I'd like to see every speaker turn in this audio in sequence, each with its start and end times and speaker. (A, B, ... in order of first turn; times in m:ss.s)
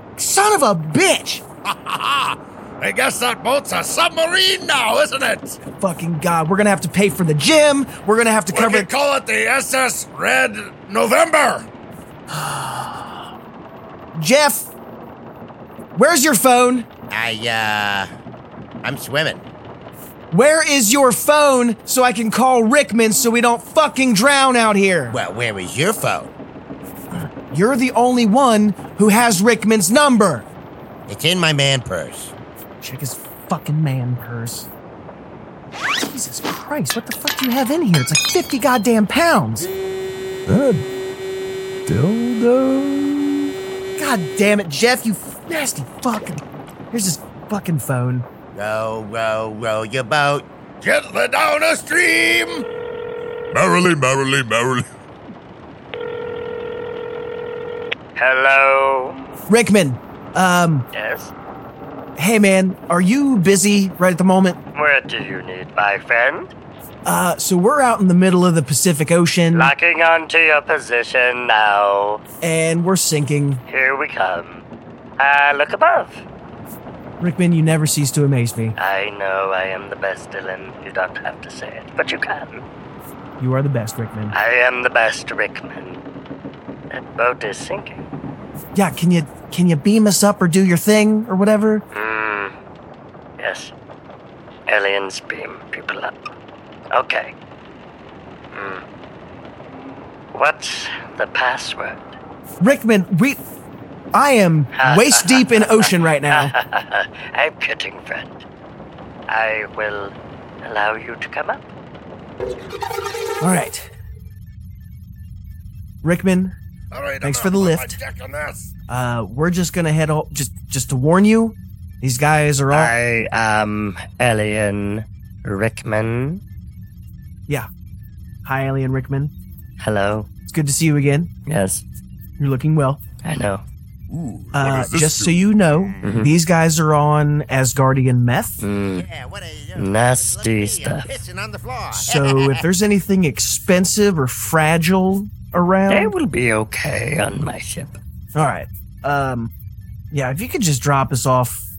0:00.2-0:01.4 A
0:01.7-0:05.6 B
0:05.8-0:08.9 A
0:08.5-0:11.7 B
0:12.3-0:13.1 A
0:14.1-0:14.7 A
0:15.9-0:16.9 A
0:17.1-0:18.1 C
0:18.8-0:19.4 C
0:20.3-0:25.2 A
0:25.1-0:26.3 C
0:27.5-0:30.5 A
0:31.1-0:32.3 C
0:32.8-0:34.7 A
0:36.0-0:39.7 A
0:41.9-0:43.1 D
0:44.0-0:48.2 A
0:48.5-0:50.5 C
0:50.8-0:52.6 B
0:53.5-0:54.9 D
0:58.2-0:59.2 E
0:59.5-1:00.9 A
1:00.9-1:01.3 E
1:02.2-1:04.6 A
1:04.7-1:06.5 E
1:07.0-1:09.7 A
1:09.5-1:12.2 E
1:12.4-1:13.6 A
1:13.7-1:14.6 E
1:15.2-1:16.2 E
1:17.2-1:18.7 A
1:18.8-1:22.6 E
1:23.4-1:24.3 A
1:24.3-1:26.0 E
1:26.9-1:28.0 E
1:28.7-1:31.8 A
1:31.9-1:32.5 E
1:33.4-1:33.7 E
1:34.7-1:36.2 E
1:36.9-1:37.3 E
1:38.5-1:38.8 E
1:40.3-1:42.2 E
1:42.6-1:43.4 A
1:44.1-1:46.5 A
1:44.8-1:48.4 E
1:49.3-1:51.6 E
1:53.4-1:53.8 A
1:56.0-1:56.5 A
1:56.9-1:58.7 B
1:57.2-1:58.0 A
1:58.9-2:02.9 A
2:02.7-2:06.4 E
2:08.4-2:09.3 A
2:09.8-2:10.3 E
2:10.5-2:11.3 A
2:11.5-2:11.8 E
2:12.4-2:13.0 A
2:13.2-2:13.6 E
2:14.1-2:16.0 D
2:14.5-2:18.6 A
2:16.0-2:16.3 E
2:18.6-2:19.0 E
2:18.9-2:22.6 C
2:19.8-2:21.1 E
2:21.9-2:26.1 A
2:25.9-2:28.0 E
2:28.3-2:29.5 A
2:30.1-2:31.6 A